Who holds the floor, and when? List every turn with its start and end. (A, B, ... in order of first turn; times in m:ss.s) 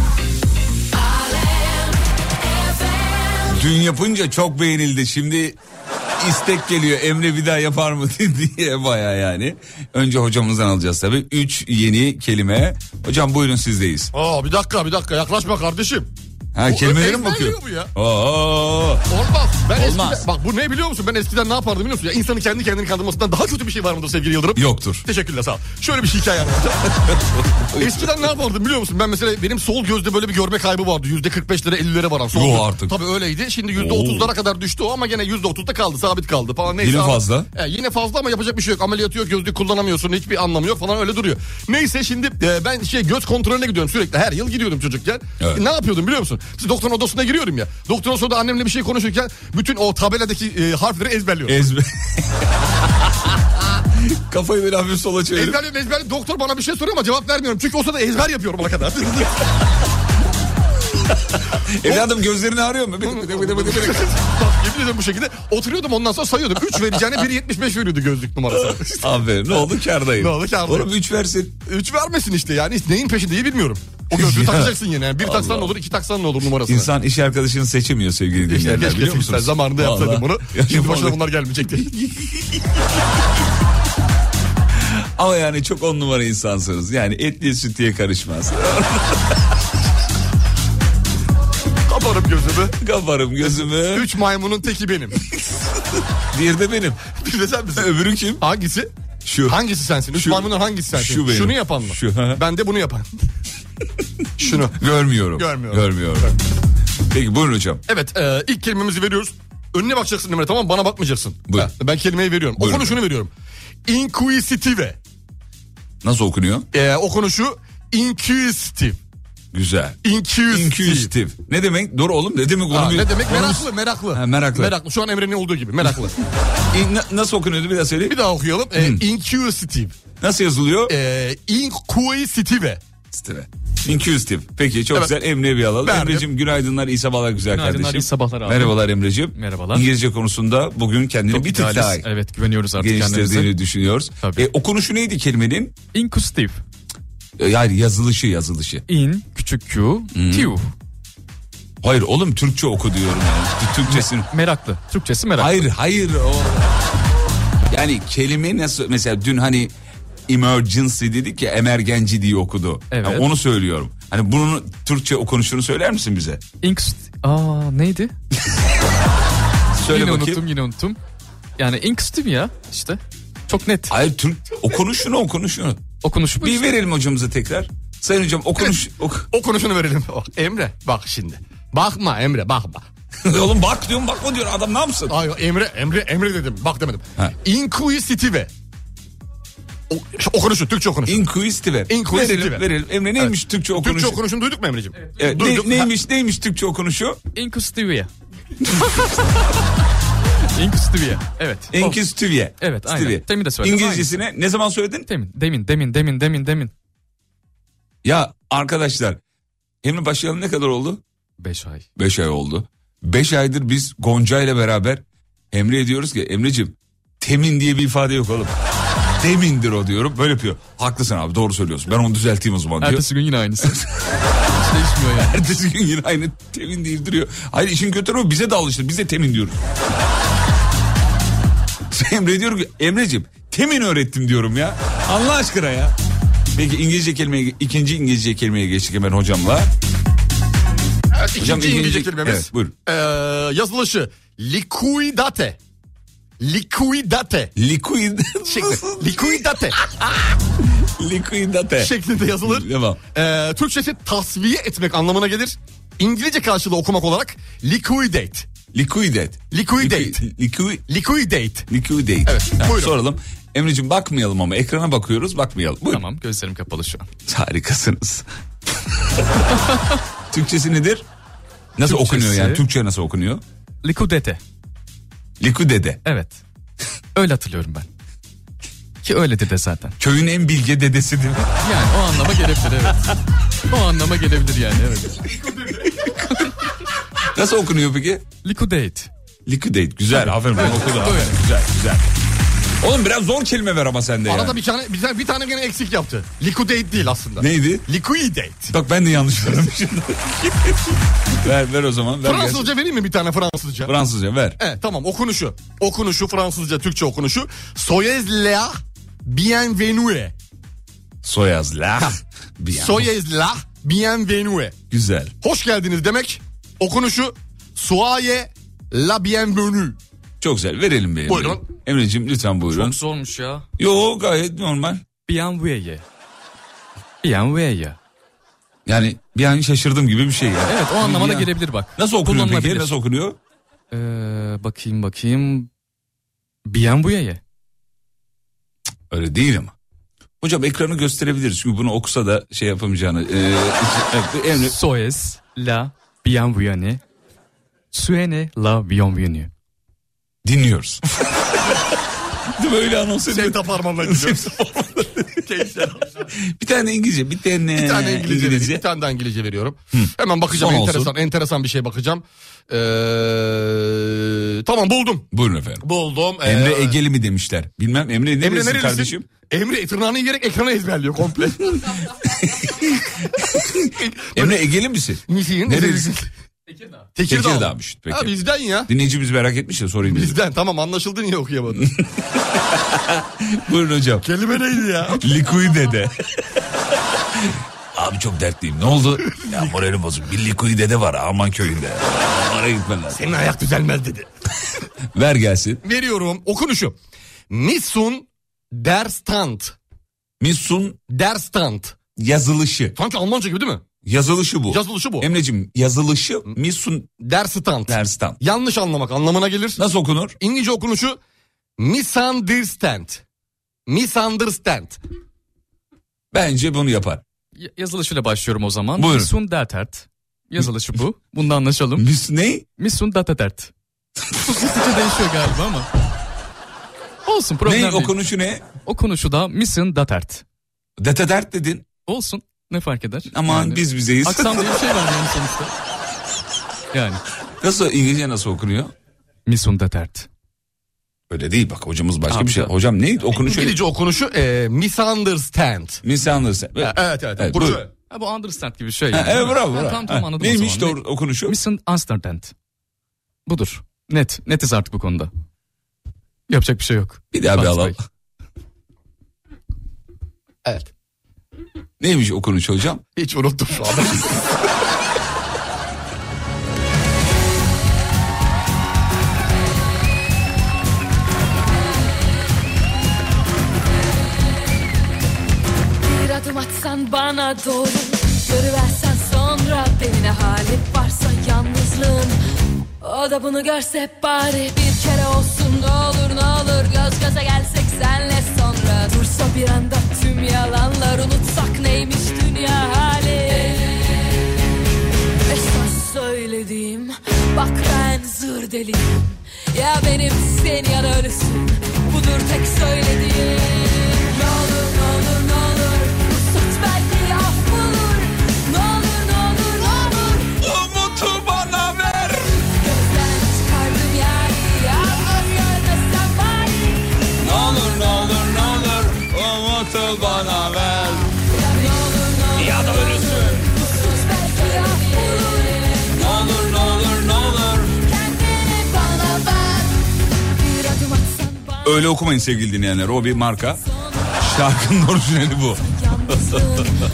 0:03.5-0:05.6 A
0:06.2-0:14.1 A
0:14.1-0:16.1 B
0:16.6-0:19.0 A
0:16.6-0:17.9 B
0:19.1-0:27.2 B
0:19.7-0:20.3 A
0:24.6-0:25.1 A
0:27.5-0:28.1 A
0:27.7-0:51.6 B
0:32.3-0:33.0 A
0:33.8-0:34.3 A
0:36.8-0:37.5 A
0:51.5-0:55.6 A
0:55.4-0:59.4 B
1:01.5-1:04.1 A
1:01.8-1:02.1 B
1:03.0-1:09.2 B
1:08.5-1:11.6 A
1:10.2-1:10.9 B
1:11.6-1:16.9 B
1:14.1-1:15.8 A
1:16.7-1:21.2 A
1:18.5-1:21.9 B
1:21.8-1:22.6 A
1:24.8-1:29.4 A
1:31.9-1:32.8 B
1:32.8-1:34.1 A
1:33.5-1:35.2 B
1:35.3-1:37.1 A
1:37.1-1:38.9 B
1:37.8-1:38.4 A
1:39.2-1:39.6 A
1:39.5-1:43.2 B
1:40.1-1:42.4 A
1:44.4-1:44.8 B
1:44.8-1:46.3 A
1:45.4-1:46.3 B
1:47.1-1:47.8 A
1:47.9-1:53.3 B
1:52.6-1:53.0 A
1:53.9-1:55.0 B
1:56.0-1:56.7 A
1:56.7-1:59.0 B
1:59.5-2:04.8 A
2:00.0-2:01.1 B
2:02.7-2:06.2 B
2:06.7-2:08.2 A
2:08.1-2:10.0 B
2:08.8-2:09.0 A
2:10.2-2:11.0 A
2:10.9-2:12.8 B
2:13.1-2:22.1 A
2:15.8-2:16.3 B
2:17.5-2:18.8 C
2:19.4-2:19.9 C
2:21.3-2:23.5 C
2:22.8-2:25.8 A
2:24.2-2:24.5 C
2:25.9-2:26.6 C
2:27.4-2:28.8 A
2:28.9-2:30.7 C
2:30.1-2:30.6 A
2:31.8-2:34.3 A
2:33.9-2:35.6 C
2:35.4-2:36.6 A
2:37.7-2:39.7 A
2:40.3-2:46.4 A
2:42.9-2:43.3 C
2:46.6-2:48.1 C
2:49.8-2:50.4 A
2:49.9-2:51.0 C
2:51.6-2:53.9 C
2:53.9-2:55.9 A
2:56.0-2:56.6 C
2:56.4-2:59.3 A
2:59.3-3:02.8 B
3:03.2-3:05.2 A
3:05.1-3:08.5 B
3:09.9-3:11.2 B
3:11.1-3:14.2 A
3:11.9-3:12.7 B
3:13.7-3:15.9 B
3:15.2-3:17.2 A
3:17.4-3:18.1 C
3:19.0-3:19.2 C
3:20.6-3:22.0 C
3:21.7-3:25.1 A
3:22.6-3:24.2 C
3:25.1-3:26.7 C
3:28.0-3:29.2 A
3:29.8-3:31.0 A
3:31.4-3:31.9 C
3:32.0-3:38.6 A
3:39.2-3:43.1 A
3:42.8-3:43.8 C
3:44.5-3:45.4 C
3:45.2-3:49.6 A
3:51.9-3:56.0 A
3:56.5-3:59.7 A
4:01.1-4:05.6 B
4:01.4-4:02.7 A
4:06.4-4:07.5 B
4:07.6-4:13.0 A
4:08.5-4:09.8 B
4:11.8-4:18.5 B
4:18.7-4:20.8 A
4:19.5-4:20.2 B
4:20.9-4:21.7 B
4:21.7-4:26.0 A
4:22.2-4:22.9 B
4:25.9-4:27.1 C
4:27.3-4:28.3 A
4:30.3-4:31.1 A
4:31.8-4:33.4 A
4:31.8-4:32.6 C
4:33.8-4:34.4 C
4:35.4-4:36.0 A
4:36.0-4:36.4 C
4:37.2-4:37.9 C
4:39.0-4:40.0 C
4:40.0-4:41.5 A
4:41.6-4:43.1 C
4:43.7-4:45.2 C
4:47.3-4:48.3 A
4:48.4-4:49.1 C
4:49.5-4:52.1 A
4:50.2-4:51.4 C
4:52.8-4:54.6 A
4:54.3-4:58.7 B
4:57.4-4:57.9 A
4:58.7-5:02.7 A
5:02.2-5:03.9 B
5:03.9-5:04.6 A
5:04.6-5:10.3 B
5:11.2-5:13.1 A
5:12.7-5:14.8 B
5:14.9-5:15.3 A
5:15.4-5:20.0 B
5:20.4-5:23.0 A
5:21.3-5:21.6 B
5:22.7-5:23.7 C
5:23.8-5:25.0 A
5:25.3-5:26.0 C
5:27.2-5:28.0 C
5:28.9-5:33.4 A
5:30.7-5:32.9 C
5:33.9-5:35.7 C
5:36.7-5:37.4 C
5:39.1-5:39.8 A
5:40.4-5:44.8 A
5:44.6-5:47.0 C
5:47.9-5:49.5 C
5:50.4-5:51.4 A
5:52.6-5:55.4 A
5:53.3-5:54.7 B
5:55.3-5:56.2 B
5:56.2-5:58.8 A
5:57.8-6:05.2 B
5:59.9-6:01.1 A
6:05.3-6:05.9 A
6:05.8-6:07.0 B
6:06.4-6:09.3 A
6:08.4-6:11.8 B
6:12.2-6:16.2 A
6:14.0-6:14.6 B
6:15.3-6:16.3 B
6:17.2-6:18.9 B
6:17.3-6:20.4 A
6:20.0-6:21.9 B
6:22.5-6:24.3 A
6:24.2-6:25.2 B
6:25.1-6:26.6 A
6:27.3-6:33.2 A
6:33.1-6:34.3 B
6:35.1-6:35.8 A
6:35.8-6:37.0 B
6:37.5-6:39.8 B
6:40.4-6:41.0 A
6:41.1-6:42.0 B
6:42.2-6:43.0 A
6:43.0-6:43.8 B
6:44.0-6:47.1 A
6:44.7-6:45.3 B
6:47.2-6:49.8 B
6:47.9-6:48.4 A
6:49.8-6:50.4 A
6:50.4-6:51.2 B
6:51.8-6:53.2 B
6:53.9-6:55.0 B
6:56.3-6:57.2 A
6:57.6-7:02.0 C
6:59.0-6:59.3 A
7:02.0-7:02.7 A
7:02.8-7:03.7 C
7:04.5-7:05.9 C
7:07.2-7:08.2 C
7:07.6-7:08.6 A
7:08.8-7:10.4 C
7:11.0-7:11.9 A
7:12.1-7:15.7 C
7:13.3-7:14.8 A
7:16.9-7:17.2 C
7:17.6-7:18.9 A
7:19.5-7:20.3 C
7:21.3-7:23.8 A
7:22.3-7:22.7 C
7:23.3-7:26.0 B
7:26.0-7:27.8 A
7:26.8-7:27.9 B
7:28.1-7:32.5 C
7:29.1-7:31.6 A
7:33.5-7:35.3 C
7:36.5-7:38.0 C
7:37.3-7:38.0 A
7:42.0-7:43.0 A
7:43.2-7:44.4 B
7:56.0-8:02.4 D
8:03.0-8:14.2 D
8:15.5-8:30.5 D
8:30.6-8:32.6 A
8:32.8-8:37.1 D
8:37.4-8:41.3 A
8:41.4-8:46.7 D
8:42.6-8:43.8 A
8:46.1-8:48.0 A
8:48.0-8:50.0 D
8:50.5-8:52.0 D
8:51.8-8:53.8 A
8:53.8-8:54.4 D
8:54.4-8:55.8 A
8:55.8-8:57.0 D